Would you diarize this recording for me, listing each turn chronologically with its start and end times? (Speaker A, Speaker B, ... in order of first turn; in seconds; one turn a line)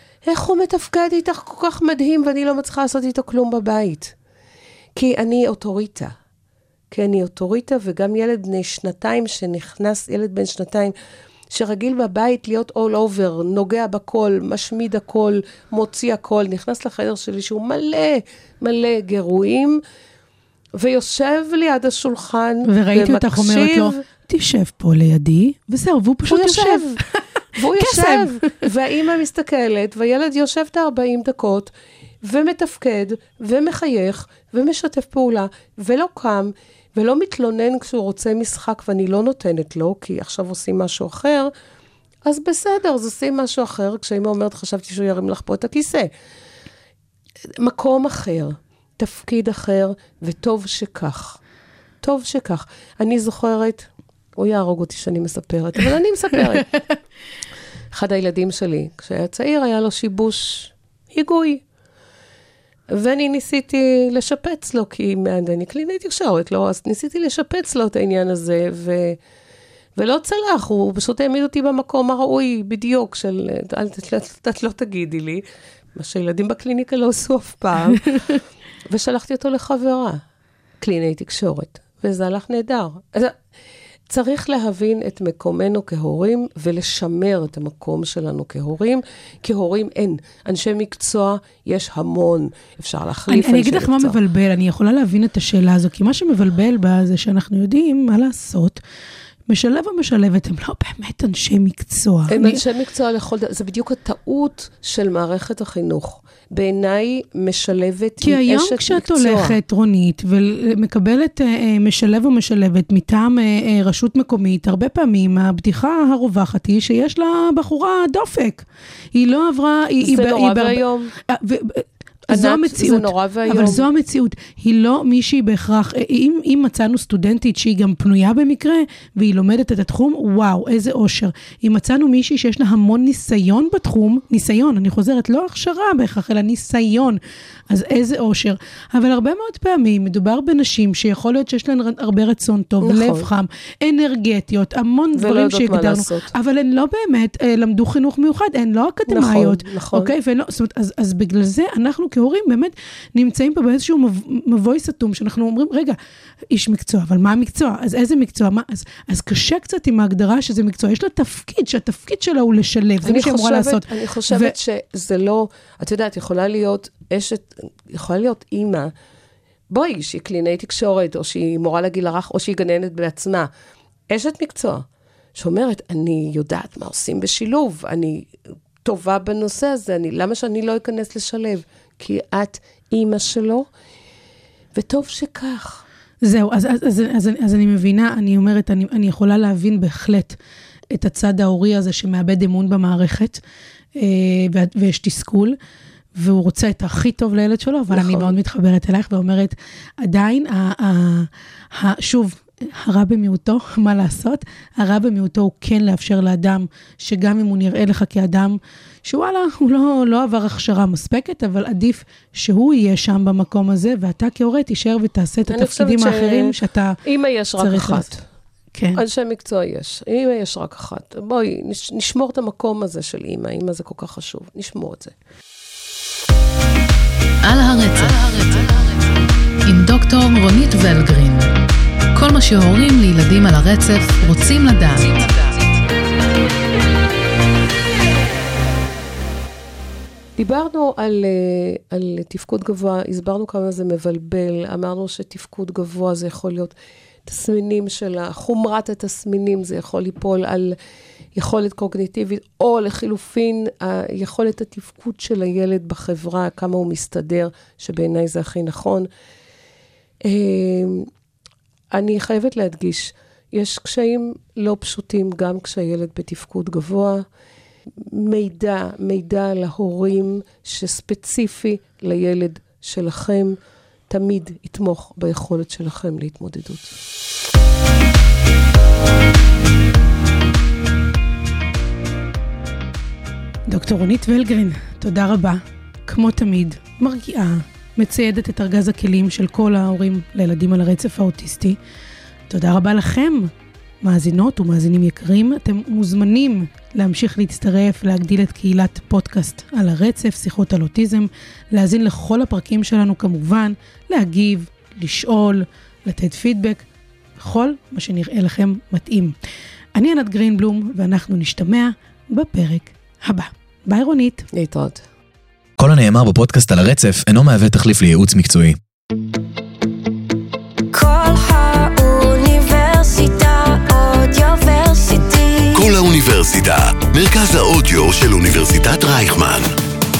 Speaker A: 0.2-4.2
Speaker A: 5.0-6.1
Speaker A: 6.9-10.9
Speaker A: 11.5-19.8
Speaker A: 20.8-24.0
Speaker B: 22.6-27.2
Speaker A: 26.3-27.0
Speaker A: 27.5-41.5
Speaker B: 27.8-28.7
Speaker A: 42.2-46.1
Speaker A: 47.6-51.4
Speaker A: 52.0-56.7
Speaker A: 57.9-61.6
Speaker A: 62.9-69.2
Speaker A: 70.0-75.4
Speaker A: 75.9-78.4
Speaker A: 78.9-80.2
Speaker A: 80.8-83.4
Speaker A: 84.1-94.2
Speaker B: 93.3-98.8
Speaker B: 99.5-102.6
Speaker A: 102.3-109.6
Speaker B: 108.2-137.2
Speaker A: 120.0-121.1
Speaker A: 122.3-123.9
Speaker B: 137.7-156.0
Speaker A: 142.8-143.3
Speaker A: 145.2-146.3
Speaker A: 149.1-150.1
Speaker B: 156.5-164.5
Speaker A: 163.0-168.9
Speaker A: 169.7-173.5
Speaker A: 174.1-183.7
Speaker A: 184.7-185.8
Speaker B: 186.2-190.4
Speaker B: 190.9-193.4
Speaker B: 194.0-195.6
Speaker B: 196.2-217.0
Speaker A: 197.9-198.3
Speaker A: 215.5-218.2
Speaker B: 217.6-218.1
Speaker B: 218.7-219.0
Speaker A: 218.9-225.1
Speaker C: 227.4-231.5
Speaker C: 232.1-235.8
Speaker A: 240.4-246.7
Speaker A: 247.3-250.8
Speaker A: 251.3-259.1
Speaker A: 260.2-261.1
Speaker A: 261.9-267.2
Speaker A: 268.0-273.6
Speaker A: 274.1-277.0
Speaker B: 283.7-291.8
Speaker B: 292.5-293.5
Speaker B: 294.0-306.8
Speaker B: 307.4-309.4
Speaker B: 310.0-314.5
Speaker A: 314.5-315.1
Speaker D: 315.8-318.8
Speaker E: 320.9-325.9
Speaker F: 325.7-329.7